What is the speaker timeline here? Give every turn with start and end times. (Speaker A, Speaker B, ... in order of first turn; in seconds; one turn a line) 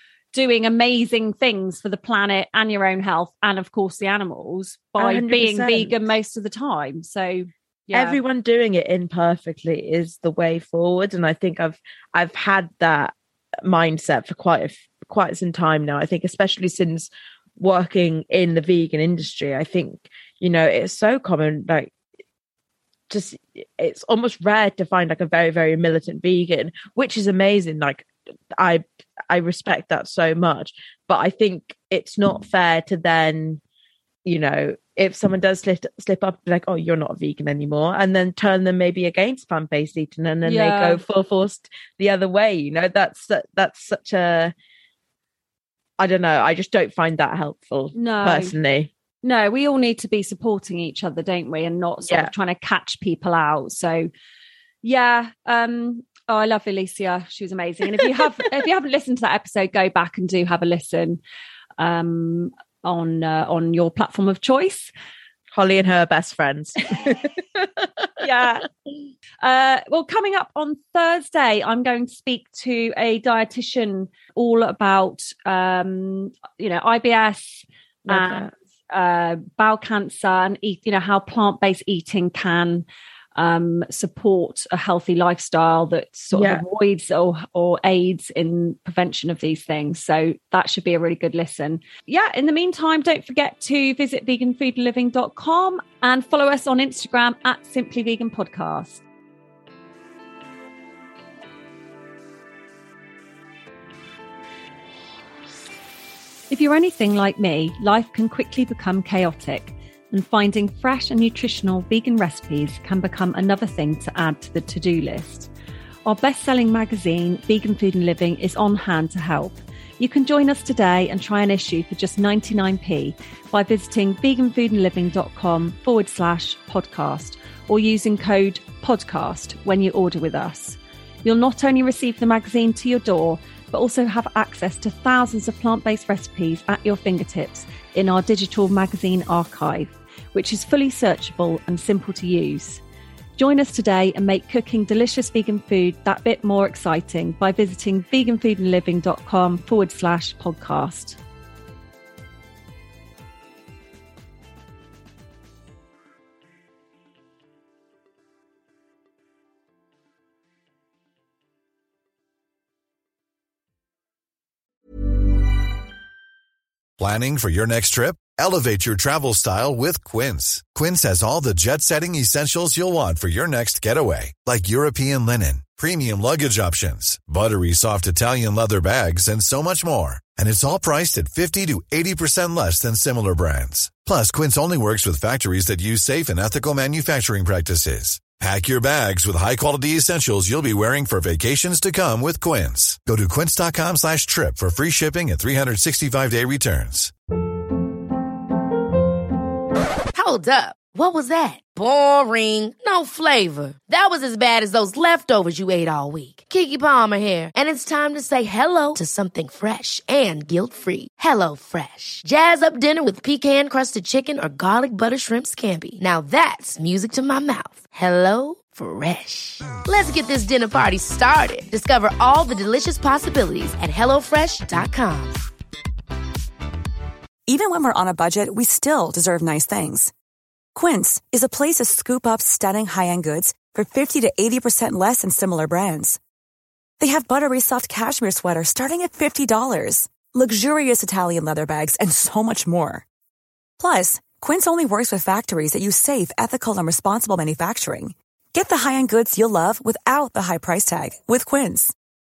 Speaker A: 0.3-8.2
Speaker B: 5.0-5.9
Speaker B: 7.9-13.1
Speaker B: 13.6-21.9
Speaker B: 23.1-33.6
Speaker B: 34.2-44.5
Speaker A: 40.4-41.0
Speaker B: 46.0-48.9
Speaker A: 47.9-48.5
Speaker A: 49.2-54.1
Speaker A: 54.8-61.2
Speaker A: 61.8-64.9
Speaker B: 65.5-68.2
Speaker A: 68.2-68.7
Speaker A: 69.4-99.0
Speaker B: 78.1-78.5
Speaker B: 86.3-86.6
Speaker A: 106.5-115.5
Speaker A: 116.0-142.8
Speaker A: 143.4-151.2
Speaker C: 167.0-197.1
Speaker D: 200.1-225.4
Speaker E: 227.5-230.1
Speaker E: 230.7-236.2
Speaker E: 237.0-243.0
Speaker E: 243.8-251.9